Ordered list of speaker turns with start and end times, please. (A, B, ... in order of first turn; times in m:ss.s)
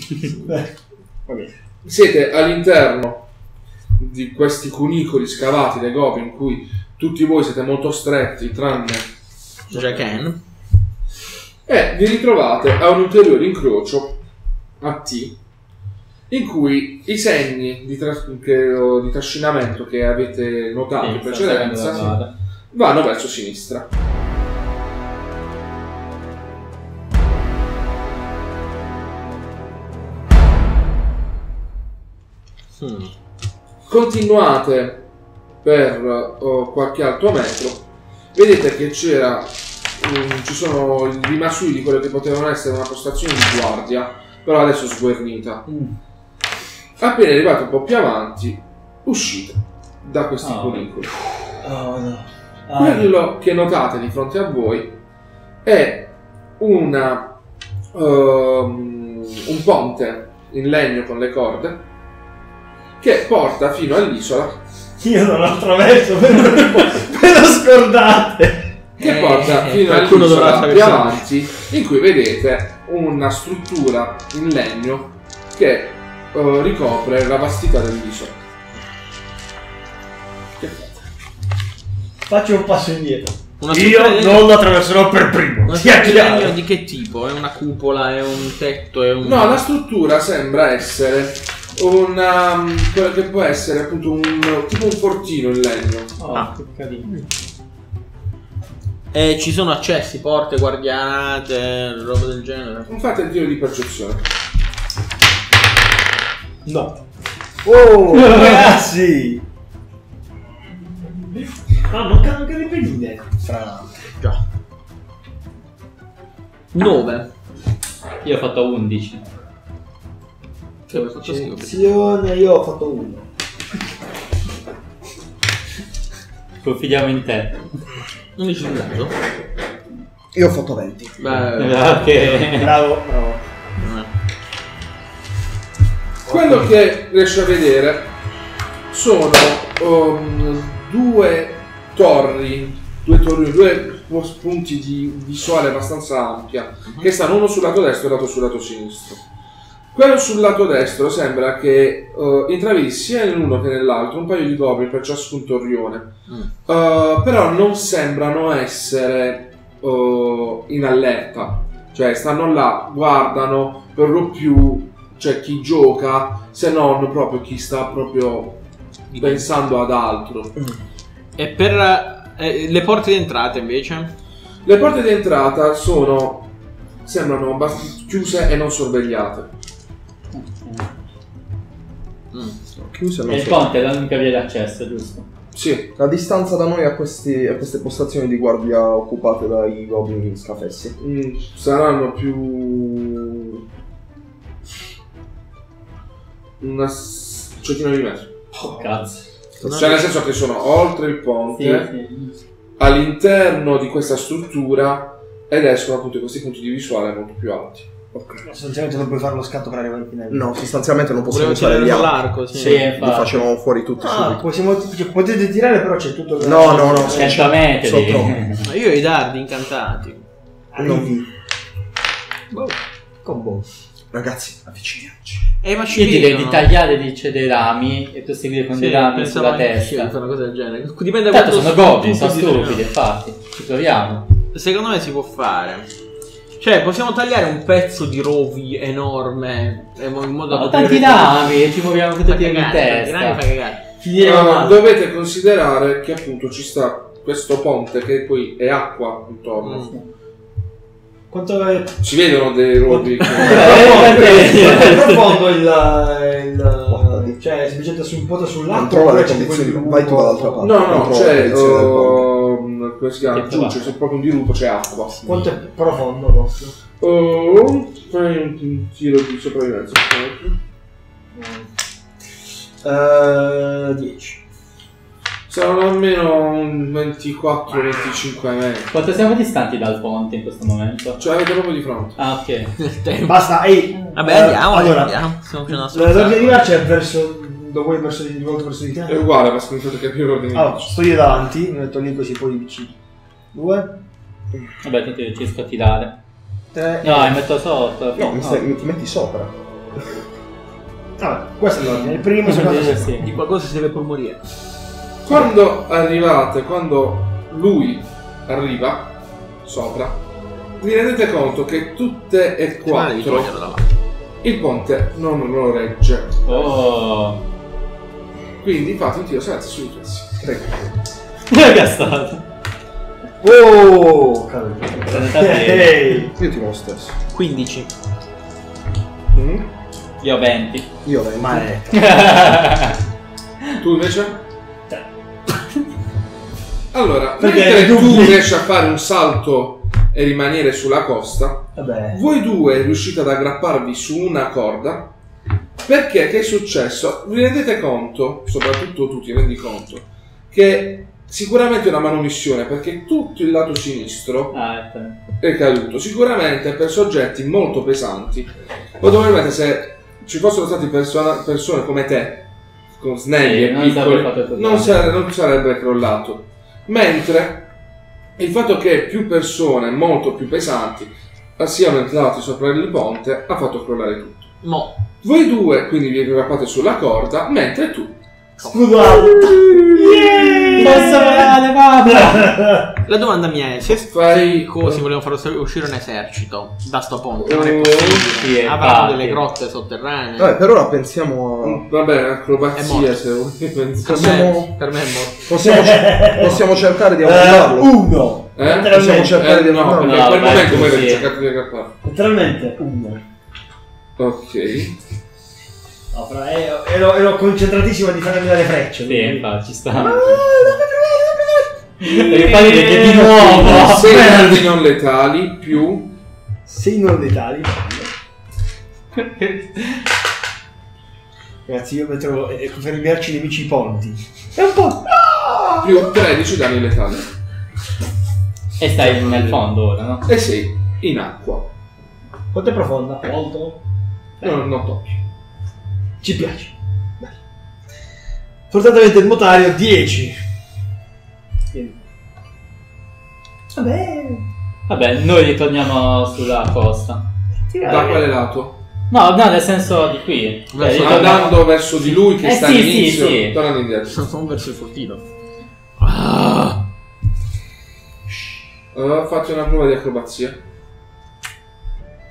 0:00.3-0:00.6 A
0:01.3-0:01.5 B
0:01.8-0:03.3 C
0:04.0-0:09.1 C
0:09.7-0:10.2 C
0:09.7-0:10.4 A
0:11.6-0:14.2 C
0:14.8-0:15.4 C
0:16.3-0:22.1 C
0:21.0-0:22.3 D
0:22.7-0:23.9 C
0:32.7-0:33.1 A
0:33.9-0:35.1 C
0:35.6-0:45.6 C
0:45.7-0:46.0 B
0:47.0-0:51.2 C
0:50.4-0:50.9 D
0:51.6-0:53.1 B
0:52.8-0:55.0 C
0:55.6-0:57.3 C
0:57.9-1:01.8 C
1:03.0-1:04.6 C
1:05.0-1:08.7 B
1:09.0-1:11.2 A
1:09.0-1:18.4 C
1:20.6-1:21.0 C
1:22.2-1:26.6 B
1:23.6-1:24.6 A
1:25.6-1:29.6 A
1:29.2-1:36.1 C
1:36.2-1:37.1 D
1:39.1-1:42.9 A
1:42.9-1:44.2 C
1:46.6-1:47.0 B
1:47.6-1:49.4 B
1:51.8-1:53.4 B
1:53.4-1:54.4 A
1:56.7-1:57.3 A
1:58.2-1:59.2 D
2:00.9-2:02.0 A
2:00.9-2:03.2 B
2:06.6-2:07.6 D
2:08.4-2:09.1 A
2:10.3-2:11.5 E
2:11.2-2:12.4 A
2:11.6-2:12.7 D
2:12.5-2:13.4 B
2:13.8-2:14.1 A
2:16.3-2:18.1 C
2:16.3-2:16.6 B
2:18.9-2:29.2 C
2:29.9-2:36.1 C
2:36.6-2:48.6 C
2:49.1-2:49.5 A
2:49.2-2:50.5 C
2:51.4-2:54.1 A
2:54.6-2:56.5 C
2:57.0-2:59.5 C
3:00.3-3:00.9 D
3:02.3-3:02.6 A
3:02.8-3:03.7 E
3:03.2-3:05.3 D
3:05.5-3:05.9 C
3:06.0-3:11.0 E
3:11.0-3:13.6 C
3:16.6-3:18.3 C
3:18.5-3:19.2 D
3:18.6-3:19.1 B
3:19.6-3:19.9 E
3:19.6-3:21.9 C
3:19.6-3:20.0 A
3:21.5-3:22.4 D
3:22.8-3:27.9 C
3:28.1-3:28.4 E
3:28.4-3:30.5 B
3:30.3-3:34.4 E
3:31.3-3:32.9 A
3:32.5-3:33.4 D
3:34.0-3:37.5 B
3:36.4-3:38.4 E
3:37.1-3:38.6 D
3:38.6-3:40.2 A
3:40.7-3:41.3 B
3:40.8-3:41.2 E
3:42.5-3:43.7 B
3:44.1-3:45.5 E
3:45.6-3:46.7 A
3:45.9-3:50.1 D
3:48.7-3:52.8 A
3:51.3-3:54.3 D
3:54.5-3:55.9 A
3:56.6-4:01.5 A
4:00.5-4:03.4 D
4:02.2-4:03.8 A
4:04.0-4:04.8 B
4:04.2-4:09.9 C
4:09.6-4:10.0 A
4:11.3-4:12.0 B
4:12.0-4:14.8 C
4:12.8-4:21.1 B
4:13.2-4:13.5 A
4:13.4-4:15.1 D
4:14.3-4:15.4 A
4:16.9-4:17.4 E
4:18.7-4:22.3 E
4:20.6-4:25.4 C
4:23.3-4:23.9 D
4:25.2-4:26.8 B
4:27.0-4:30.6 C
4:31.3-4:31.7 B
4:32.8-4:34.4 B
4:35.5-4:38.9 C
4:38.9-4:41.2 D
4:41.2-4:42.2 C
4:42.2-4:42.7 D
4:42.8-4:43.4 A
4:43.2-4:49.2 B
4:44.1-4:46.8 A
4:49.0-4:51.0 C
4:50.5-4:52.9 B
4:53.5-4:54.0 B
4:54.8-4:56.2 D
4:56.7-4:57.4 B
4:57.0-4:58.7 D
4:58.2-5:00.2 E
5:01.2-5:03.2 B
5:01.7-5:02.3 C
5:02.4-5:03.3 D
5:03.1-5:04.4 A
5:05.2-5:10.2 C
5:10.8-5:13.5 C
5:12.8-5:13.9 A
5:14.4-5:16.7 C
5:16.4-5:17.4 D
5:18.6-5:20.9 C
5:21.5-5:22.4 D
5:23.4-5:26.3 B
5:25.0-5:26.0 D
5:26.3-5:27.2 E
5:27.3-5:27.9 A
5:29.3-5:29.7 C
5:30.2-5:30.9 D
5:31.0-5:31.7 E
5:31.4-5:32.0 B
5:31.9-5:33.0 D
5:33.8-5:34.4 C
5:36.9-5:45.1 C
5:37.4-5:38.4 B
5:41.8-5:42.2 B
5:45.8-5:54.5 C
5:54.5-5:55.2 D
5:55.4-6:07.7 C
6:03.4-6:05.0 D
6:08.4-6:14.5 C
6:14.6-6:15.0 A
6:15.2-6:18.2 C
6:18.6-6:19.3 A
6:18.6-6:22.9 B
6:19.4-6:20.4 C
6:20.8-6:22.6 D
6:23.0-6:30.5 A
6:24.1-6:25.1 C
6:27.4-6:28.3 C
6:28.4-6:29.4 D
6:30.4-6:31.8 E
6:31.6-6:34.5 C
6:32.7-6:33.2 A
6:34.0-6:35.5 A
6:34.0-6:34.7 E
6:35.4-6:38.0 E
6:35.6-6:39.4 B
6:38.6-6:41.9 C
6:38.8-6:40.9 E
6:39.9-6:41.3 D
6:42.0-6:43.2 B
6:44.2-6:45.0 C
6:46.1-6:54.8 B
6:49.0-6:50.3 D
6:52.0-6:54.1 D
6:53.5-6:56.2 C
6:56.6-6:58.1 B
6:59.2-7:00.0 D
7:01.6-7:06.1 B
7:05.8-7:07.3 C
7:08.8-7:10.3 D
7:09.0-7:09.6 C
7:10.2-7:11.7 C
7:12.5-7:13.8 B
7:14.4-7:14.7 B
7:14.4-7:15.1 C
7:16.2-7:17.3 B
7:18.7-7:20.4 B
7:21.7-7:22.0 B
7:23.7-7:24.4 B
7:24.9-7:27.2 D
7:27.7-7:28.3 B
7:27.8-7:28.8 C
7:29.1-7:33.6 D
7:30.7-7:31.5 A
7:30.9-7:34.2 C
7:34.1-7:35.3 A
7:36.0-7:36.8 A
7:38.9-7:40.6 C